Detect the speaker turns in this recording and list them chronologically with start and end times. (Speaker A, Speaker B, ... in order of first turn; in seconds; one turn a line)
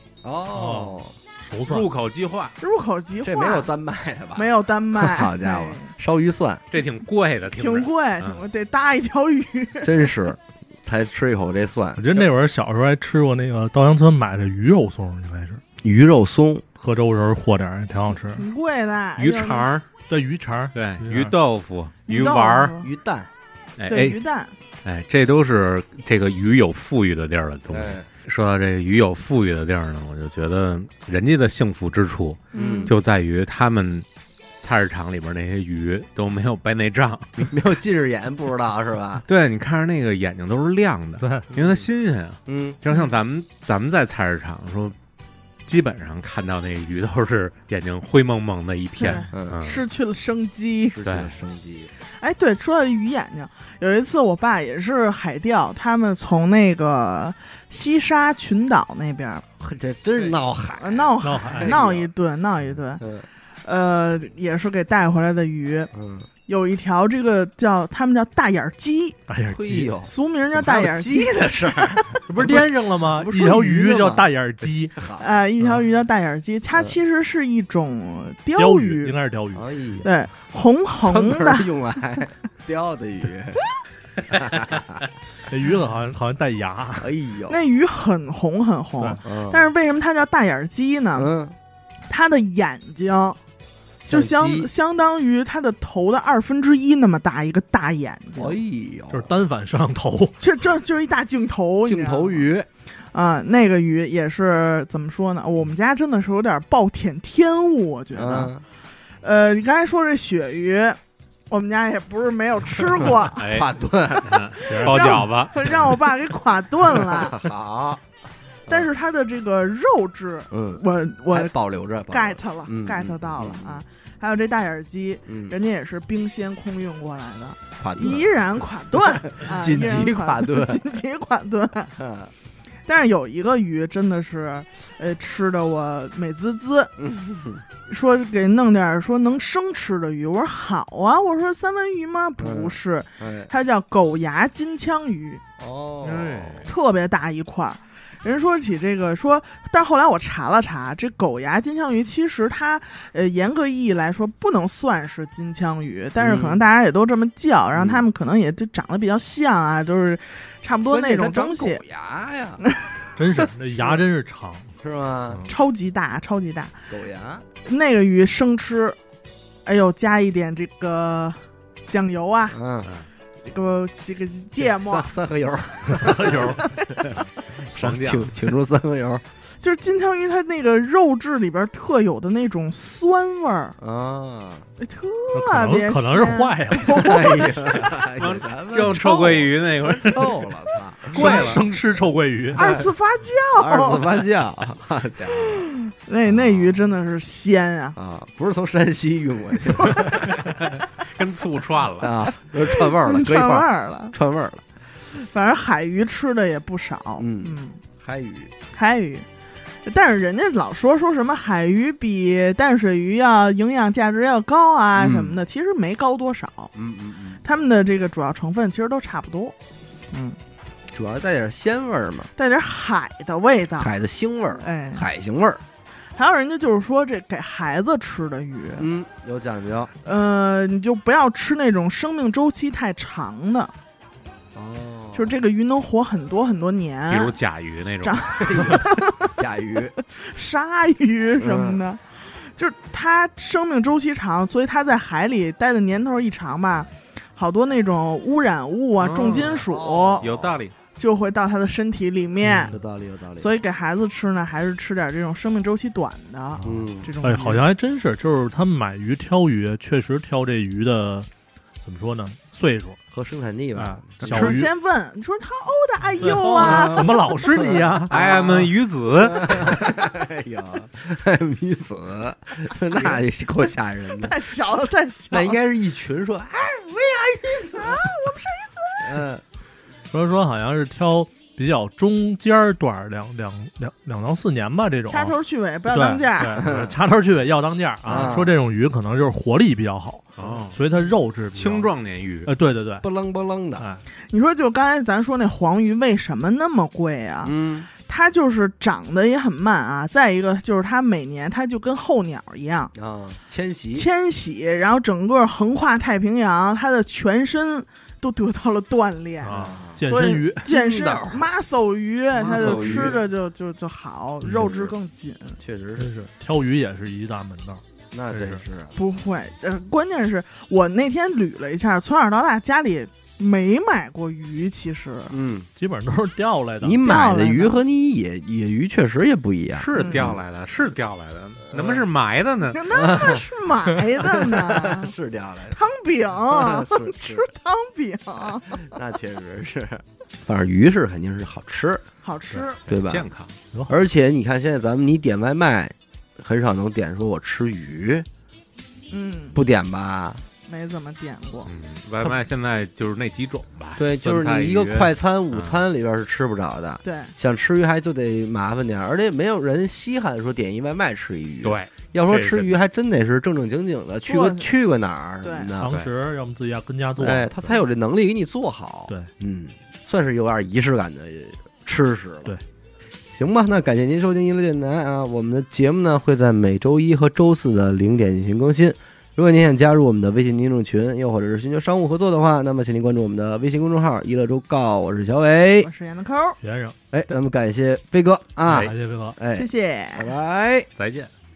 Speaker A: 0.2-1.1
Speaker B: 0.5-1.9
Speaker C: 1.6-2.6
Speaker D: 2.6-3.7
Speaker A: 3.2-6.6
Speaker D: 4.4-5.9
Speaker C: 6.7-8.4
Speaker D: 7.5-10.0
Speaker A: 9.8-12.1
Speaker B: 12.0-15.6
Speaker A: 15.8-16.6
Speaker B: 16.8-18.4
Speaker D: 18.4-19.7
Speaker C: 19.2-19.9
Speaker B: 20.1-21.4
Speaker C: 20.7-22.8
Speaker D: 22.1-22.9
Speaker A: 22.8-23.3
Speaker C: 23.8-24.2
Speaker D: 23.9-24.5
Speaker C: 24.8-34.1
Speaker A: 27.7-28.1
Speaker D: 32.5-33.0
Speaker A: 32.5-33.0
Speaker C: 34.6-37.6
Speaker A: 37.4-39.2
Speaker C: 39.3-45.0
Speaker B: 41.2-41.5
Speaker A: 41.5-41.9
Speaker A: 42.5-42.8
Speaker C: 45.7-49.8
Speaker D: 49.0-51.0
Speaker A: 49.3-49.6
Speaker A: 50.9-51.9
Speaker C: 51.0-51.3
Speaker D: 52.2-59.5
Speaker A: 59.6-62.1
Speaker D: 60.8-63.0
Speaker B: 61.2-61.8
Speaker A: 63.0-63.3
Speaker D: 63.6-65.9
Speaker A: 65.9-66.3
Speaker D: 66.5-69.2
Speaker B: 69.3-69.9
Speaker A: 69.5-74.3
Speaker D: 70.0-72.2
Speaker B: 72.3-75.0
Speaker A: 74.9-75.2
Speaker D: 75.2-79.2
Speaker B: 78.6-79.7
Speaker A: 79.5-80.1
Speaker D: 80.0-81.7
Speaker A: 81.0-83.6
Speaker A: 84.3-85.0
Speaker B: 85.5-87.1
Speaker A: 87.0-87.6
Speaker D: 87.5-91.3
Speaker A: 89.2-89.7
Speaker A: 91.2-91.6
Speaker D: 92.1-93.4
Speaker A: 94.0-94.7
Speaker D: 94.1-98.6
Speaker A: 98.4-99.3
Speaker B: 99.1-100.4
Speaker D: 100.4-102.5
Speaker A: 101.8-102.7
Speaker D: 103.1-108.5
Speaker A: 108.2-108.6
Speaker D: 109.2-111.0
Speaker D: 111.5-113.4
Speaker C: 113.4-115.9
Speaker A: 113.4-114.4
Speaker D: 114.6-117.5
Speaker B: 114.7-115.2
Speaker A: 116.9-118.0
Speaker D: 118.7-121.5
Speaker A: 120.5-123.8
Speaker D: 122.1-131.9
Speaker A: 125.3-125.5
Speaker A: 127.8-128.4
Speaker A: 129.0-130.8
Speaker A: 132.0-132.3
Speaker D: 132.9-136.9
Speaker A: 137.0-137.6
Speaker D: 137.9-145.4
Speaker A: 142.4-143.5
Speaker A: 145.6-146.6
Speaker C: 146.0-146.7
Speaker D: 146.7-161.8
Speaker A: 156.2-156.6
Speaker A: 157.7-158.1
Speaker A: 160.9-162.6
Speaker D: 162.7-163.0
Speaker B: 163.2-164.7
Speaker A: 163.7-164.0
Speaker A: 164.8-165.4
Speaker D: 165.5-166.8
Speaker A: 166.9-167.4
Speaker D: 167.6-169.0
Speaker D: 169.7-172.6
Speaker A: 172.5-172.9
Speaker D: 173.5-175.1
Speaker A: 174.6-179.2
Speaker B: 175.9-176.7
Speaker D: 176.0-177.2
Speaker C: 177.7-178.3
Speaker D: 179.6-183.8
Speaker A: 183.8-184.7
Speaker D: 184.8-187.9
Speaker B: 185.3-187.2
Speaker A: 186.9-191.6
Speaker C: 187.7-190.4
Speaker B: 191.1-192.7
Speaker C: 191.1-191.7
Speaker D: 192.5-194.1
Speaker A: 192.5-192.9
Speaker A: 193.6-195.7
Speaker D: 195.3-198.0
Speaker A: 196.3-196.9
Speaker A: 198.0-200.7
Speaker D: 199.7-200.4
Speaker C: 200.4-202.2
Speaker A: 202.0-204.6
Speaker D: 202.3-204.2
Speaker D: 205.1-207.8
Speaker A: 207.2-208.5
Speaker D: 208.7-209.3
Speaker D: 209.8-216.7
Speaker A: 215.0-215.4
Speaker A: 216.7-217.4
Speaker D: 217.4-219.6
Speaker D: 220.1-220.4
Speaker A: 220.9-222.3
Speaker D: 222.4-223.9
Speaker A: 223.8-225.6
Speaker D: 224.6-225.1
Speaker D: 226.2-228.9
Speaker A: 228.8-229.9
Speaker D: 230.0-233.7
Speaker A: 234.5-235.3
Speaker D: 235.1-237.3
Speaker C: 237.1-238.2
Speaker D: 238.0-239.3
Speaker A: 238.4-239.9
Speaker D: 240.1-250.2
Speaker A: 241.4-241.8
Speaker C: 249.0-249.6
Speaker A: 249.2-250.6
Speaker C: 250.2-250.8
Speaker D: 251.0-252.7
Speaker B: 252.4-252.8
Speaker A: 252.6-253.5
Speaker D: 253.4-257.6
Speaker B: 256.6-261.3
Speaker A: 256.6-257.1
Speaker B: 261.8-263.0
Speaker A: 263.1-264.2
Speaker B: 263.8-264.7
Speaker C: 264.2-264.6
Speaker D: 264.3-267.1
Speaker B: 266.2-268.1
Speaker A: 266.5-274.4
Speaker C: 268.1-269.9
Speaker D: 274.2-275.6
Speaker A: 275.3-278.1
Speaker D: 277.7-279.2
Speaker A: 279.0-279.4
Speaker B: 280.1-285.4
Speaker D: 285.1-286.7
Speaker B: 285.9-291.9
Speaker A: 286.5-287.0
Speaker C: 288.1-288.4
Speaker A: 288.1-288.6
Speaker C: 290.4-290.8
Speaker C: 291.5-292.5
Speaker B: 292.5-293.1
Speaker A: 293.0-293.9
Speaker D: 294.3-302.9
Speaker A: 297.4-297.9
Speaker A: 302.9-304.1
Speaker D: 303.9-315.6
Speaker B: 309.4-310.7
Speaker A: 309.5-310.1
Speaker A: 310.6-311.5
Speaker A: 312.4-313.2
Speaker C: 312.4-313.2
Speaker A: 314.5-314.9
Speaker A: 315.6-316.1
Speaker B: 316.0-318.6
Speaker A: 318.1-318.9
Speaker D: 318.9-325.3
Speaker A: 325.3-325.7
Speaker B: 325.8-327.1
Speaker A: 326.8-330.4
Speaker D: 327.0-327.8
Speaker C: 329.8-332.8
Speaker D: 330.0-330.3
Speaker A: 331.7-332.1
Speaker D: 332.7-335.1
Speaker A: 332.9-333.5
Speaker A: 334.2-335.8
Speaker D: 335.7-338.9
Speaker A: 336.4-337.5
Speaker A: 338.5-342.0
Speaker D: 342.2-342.8
Speaker A: 342.9-343.3
Speaker C: 342.9-343.5
Speaker A: 343.9-348.3
Speaker D: 349.1-349.6
Speaker A: 349.6-350.4
Speaker D: 350.7-351.7
Speaker C: 351.7-355.8
Speaker A: 354.0-365.9
Speaker D: 357.0-357.3
Speaker C: 361.6-362.8
Speaker D: 364.3-364.7
Speaker D: 365.4-365.7
Speaker B: 365.8-367.8
Speaker C: 365.8-366.1
Speaker A: 367.2-372.5
Speaker A: 373.3-385.9
Speaker D: 385.8-386.6
Speaker B: 386.6-387.0
Speaker A: 387.1-390.9
Speaker C: 388.7-388.9
Speaker B: 388.7-389.4
Speaker D: 389.5-390.3
Speaker C: 391.0-391.3